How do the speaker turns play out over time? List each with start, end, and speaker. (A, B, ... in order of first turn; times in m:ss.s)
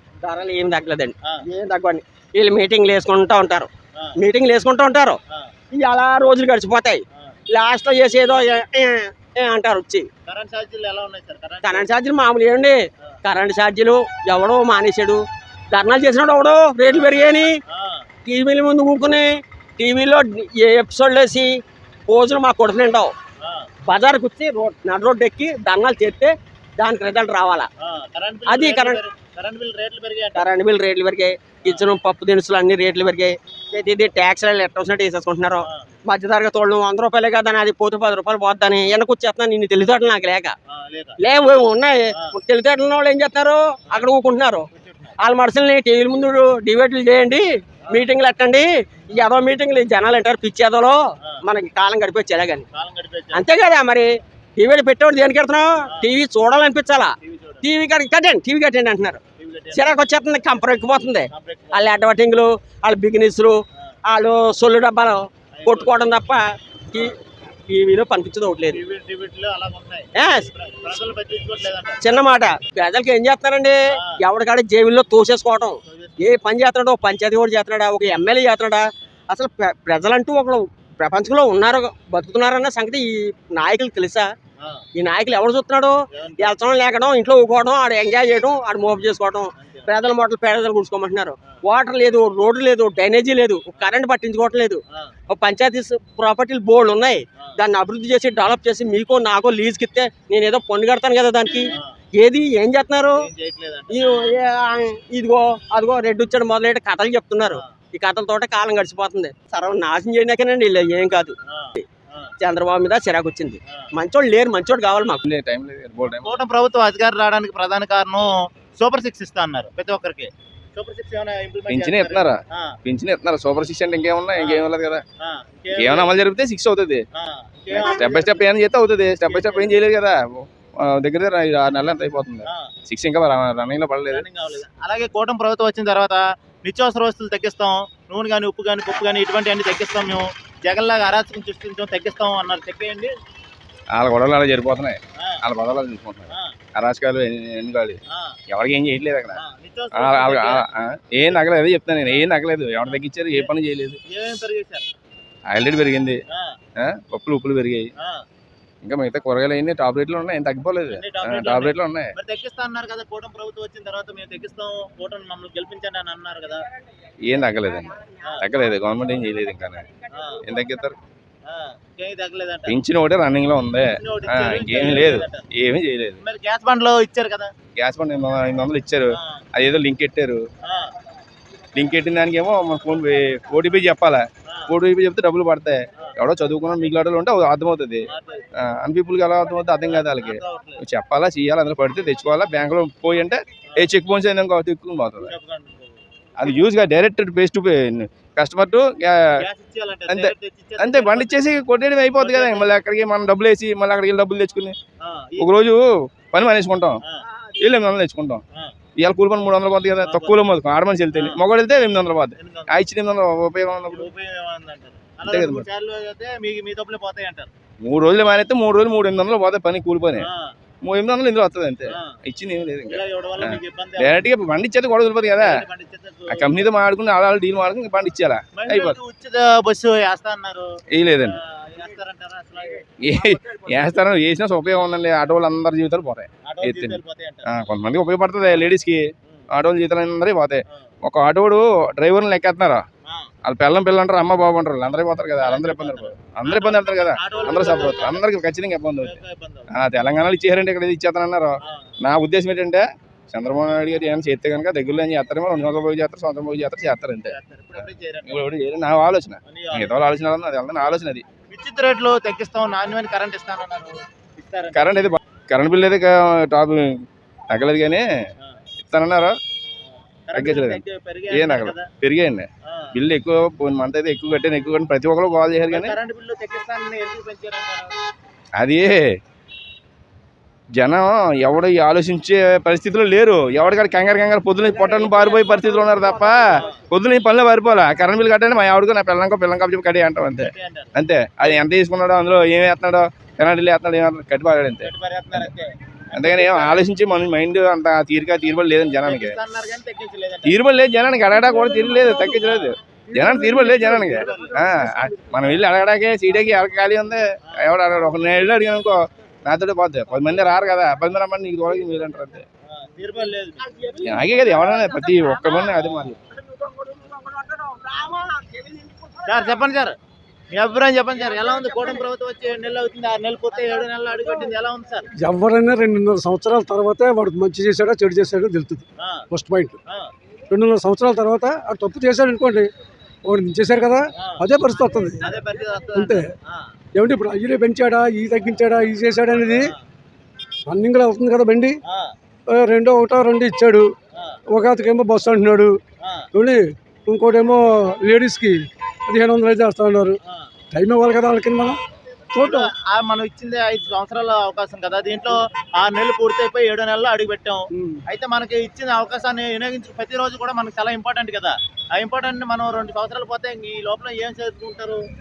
0:00.2-0:05.2 A
0:05.7-0:07.0 A
0:07.5-0:10.1 A
0:10.2-0:11.9 B
0:11.6-0:17.5 A
0:16.8-0:18.0 B
0:18.2-0:21.5 A
0:22.1-0:23.1 A
0:23.9-0:27.7 A
0:27.8-0:30.5 B
0:28.5-0:29.0 A
0:30.3-0:40.5 A
0:40.7-0:41.2 B
0:41.2-0:44.6 A
0:44.7-0:45.2 B
0:45.2-0:52.6 A
0:52.7-0:53.5 B
0:53.3-0:59.2 A
0:57.2-0:57.6 B
0:59.4-1:00.1 B
0:59.7-1:07.1 A
1:01.3-1:01.9 B
1:05.6-1:06.0 B
1:07.7-1:08.8 A
1:08.7-1:12.0 B
1:10.1-1:10.5 A
1:12.0-1:24.3 A
1:15.8-1:16.3 B
1:24.6-1:24.8 B
1:25.0-1:43.2 A
1:26.1-1:26.6 B
1:29.6-1:29.9 B
1:43.2-1:44.3 B
1:43.9-1:51.8 A
1:51.5-1:52.3 B
1:52.4-1:55.2 A
1:55.2-1:56.4 C
1:56.1-2:02.7 B
2:01.7-2:05.0 C
2:04.4-2:04.6 B
2:05.2-2:06.1 B
2:05.7-2:07.0 C
2:07.2-2:08.4 B
2:07.7-2:14.2 C
2:09.2-2:09.8 B
2:14.1-2:23.1 B
2:23.9-2:29.4 C
2:29.3-2:30.6 B
2:29.9-2:34.0 C
2:32.0-2:32.3 B
2:32.8-2:33.5 B
2:34.1-2:34.9 B
2:35.5-2:36.2 C
2:36.8-2:37.9 C
2:38.8-2:42.1 C
2:40.9-2:46.6 B
2:47.2-2:49.8 C
2:50.1-2:50.4 B
2:50.4-2:51.0 C
2:51.5-2:52.8 B
2:52.7-2:56.2 C
2:53.9-2:55.4 B
2:56.2-2:57.5 B
2:57.8-3:00.4 C
2:59.2-2:59.4 B
3:00.7-3:00.9 B
3:01.7-3:15.3 C
3:08.1-3:08.5 B
3:09.9-3:10.8 B
3:15.2-3:16.0 B
3:16.4-3:19.3 C
3:19.4-3:21.3 B
3:20.1-3:24.8 C
3:22.2-3:22.7 B
3:25.0-3:25.5 B
3:25.4-3:27.0 C
3:27.6-3:28.4 C
3:29.0-3:34.1 C
3:30.0-3:30.4 B
3:31.1-3:31.4 B
3:32.4-3:32.8 B
3:33.9-3:37.5 B
3:35.2-3:35.7 C
3:37.8-3:40.3 C
3:40.2-3:40.5 B
3:40.8-3:45.6 C
3:42.9-3:44.2 B
3:45.4-3:46.7 B
3:46.3-3:49.0 C
3:48.6-3:50.6 B
3:50.9-3:51.4 C
3:51.2-3:52.8 B
3:53.0-4:02.8 C
3:53.2-3:53.8 A
3:56.4-3:57.4 B
4:03.0-4:03.3 B
4:03.4-4:09.2 C
4:05.4-4:08.2 B
4:09.0-4:09.7 B
4:09.7-4:17.3 C
4:17.3-4:18.4 B
4:18.2-4:21.2 C
4:19.4-4:20.0 B
4:21.5-4:25.1 B
4:24.7-4:28.1 C
4:28.8-4:29.4 C
4:30.3-4:31.9 B
4:30.3-4:36.0 C
4:35.7-4:37.9 B
4:38.6-4:39.1 C
4:40.8-4:55.5 C
4:44.6-4:46.8 B
4:50.4-4:51.5 B
4:54.8-4:56.8 B
4:56.1-4:59.4 C
4:59.0-5:00.5 B
5:00.4-5:12.4 C
5:01.4-5:02.3 D
5:02.3-5:02.7 B
5:03.1-5:05.4 D
5:04.0-5:04.6 B
5:12.7-5:13.6 B
5:13.6-5:19.6 A
5:14.0-5:16.2 C
5:19.2-5:19.9 B
5:20.5-5:25.1 B
5:21.1-5:22.0 A
5:23.5-5:24.5 A
5:25.2-5:29.8 D
5:29.0-5:29.2 B
5:30.5-5:32.7 D
5:33.2-5:35.2 D
5:34.2-5:34.4 B
5:35.2-5:36.7 B
5:35.9-5:36.3 D
5:36.9-5:39.7 D
5:39.4-5:39.8 B
5:40.7-5:41.8 D
5:41.8-5:42.1 B
5:42.5-5:43.9 D
5:44.5-5:45.8 D
5:46.0-5:46.3 B
5:46.3-5:50.2 D
5:50.7-5:51.8 D
5:52.3-5:52.7 D
5:52.4-6:05.0 B
5:57.7-5:58.0 D